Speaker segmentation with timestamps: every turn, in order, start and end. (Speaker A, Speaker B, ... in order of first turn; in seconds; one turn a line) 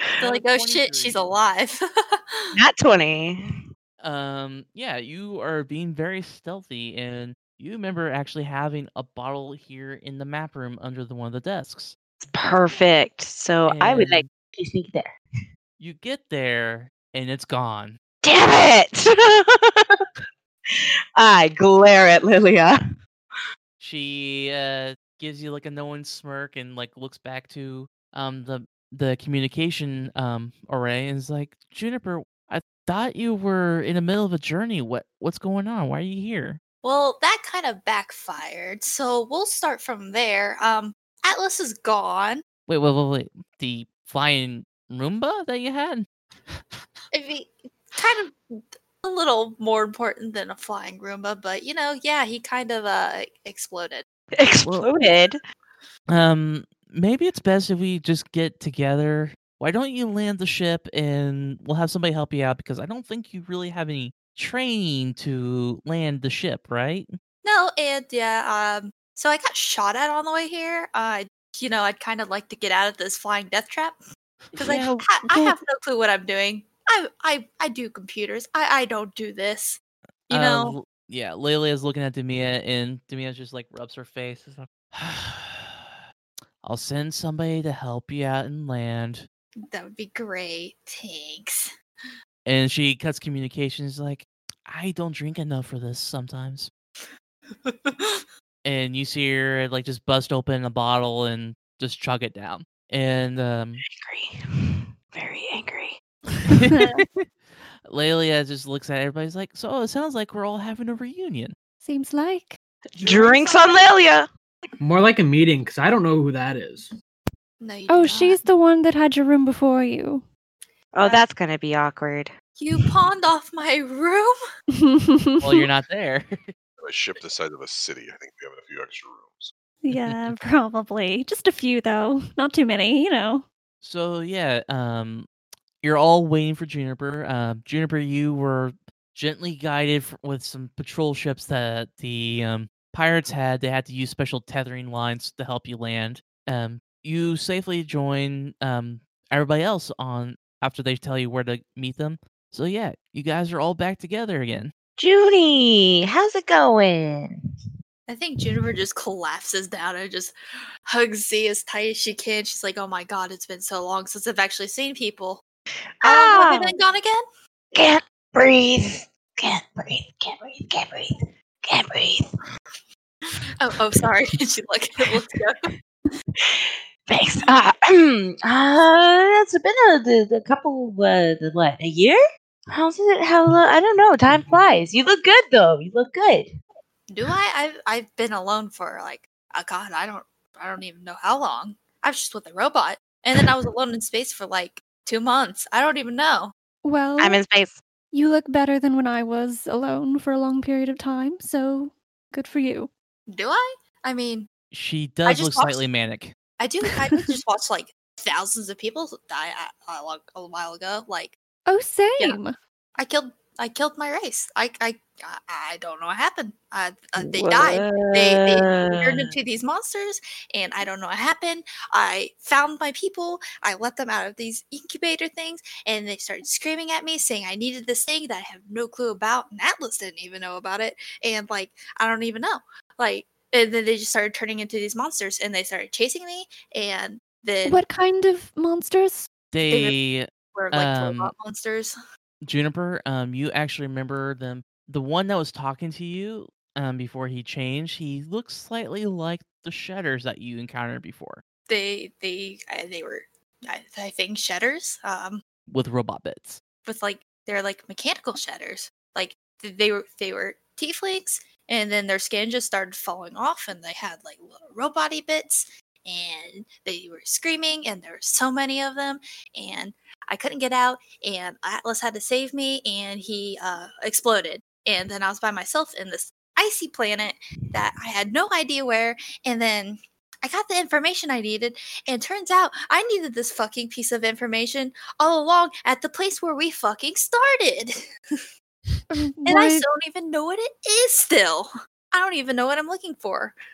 Speaker A: 0.2-1.3
Speaker B: 0.2-2.6
Speaker C: 2.6-3.4
Speaker A: 4.0-11.9
Speaker C: 12.3-15.1
Speaker A: 13.6-14.3
Speaker A: 15.8-18.0
Speaker C: 18.2-19.9
Speaker C: 21.2-22.8
Speaker A: 23.8-36.6
Speaker B: 36.8-42.4
Speaker A: 42.7-46.1
Speaker B: 47.1-54.0
Speaker C: 54.4-55.4
Speaker A: 56.1-67.1
Speaker B: 67.4-74.0
Speaker A: 74.6-75.5
Speaker B: 74.6-80.8
Speaker A: 80.3-85.9
Speaker A: 86.6-89.3
Speaker B: 89.7-91.7
Speaker A: 92.5-96.7
Speaker B: 97.6-98.2
Speaker A: 98.6-103.8
Speaker C: 104.0-106.0
Speaker A: 106.5-107.3
Speaker D: 106.7-107.0
Speaker A: 107.9-111.5
Speaker D: 111.8-112.6
Speaker B: 113.0-113.8
Speaker C: 113.0-114.3
Speaker E: 114.8-116.9
Speaker B: 117.6-118.4
Speaker D: 117.9-120.2
Speaker C: 120.9-122.3
Speaker B: 121.0-121.3
Speaker B: 122.6-124.4
Speaker D: 124.7-125.7
Speaker A: 125.4-126.5
Speaker F: 126.8-129.5
Speaker D: 129.8-133.4
Speaker A: 129.9-130.3
Speaker A: 133.8-135.3
Speaker A: 135.8-154.7
Speaker C: 155.0-157.4
Speaker B: 158.1-160.3
Speaker B: 160.9-165.4
Speaker B: 166.0-167.2
Speaker C: 166.1-166.7
Speaker C: 167.7-172.3
Speaker B: 173.6-175.7
Speaker C: 176.4-186.5
Speaker B: 187.1-196.5
Speaker D: 196.8-197.4
Speaker C: 197.2-197.8
Speaker D: 198.1-202.9
Speaker B: 203.3-204.5
Speaker A: 204.7-206.3
Speaker B: 205.3-205.8
Speaker B: 206.6-211.4
Speaker D: 211.7-212.6
Speaker B: 213.0-237.8
Speaker C: 217.2-219.3
Speaker D: 237.6-239.3
Speaker A: 239.5-241.3
Speaker B: 239.7-240.0
Speaker B: 240.5-241.9
Speaker A: 242.4-251.4
Speaker B: 251.7-255.4
Speaker A: 255.7-256.6
Speaker B: 256.8-288.4
Speaker D: 289.1-289.9
Speaker B: 289.4-293.6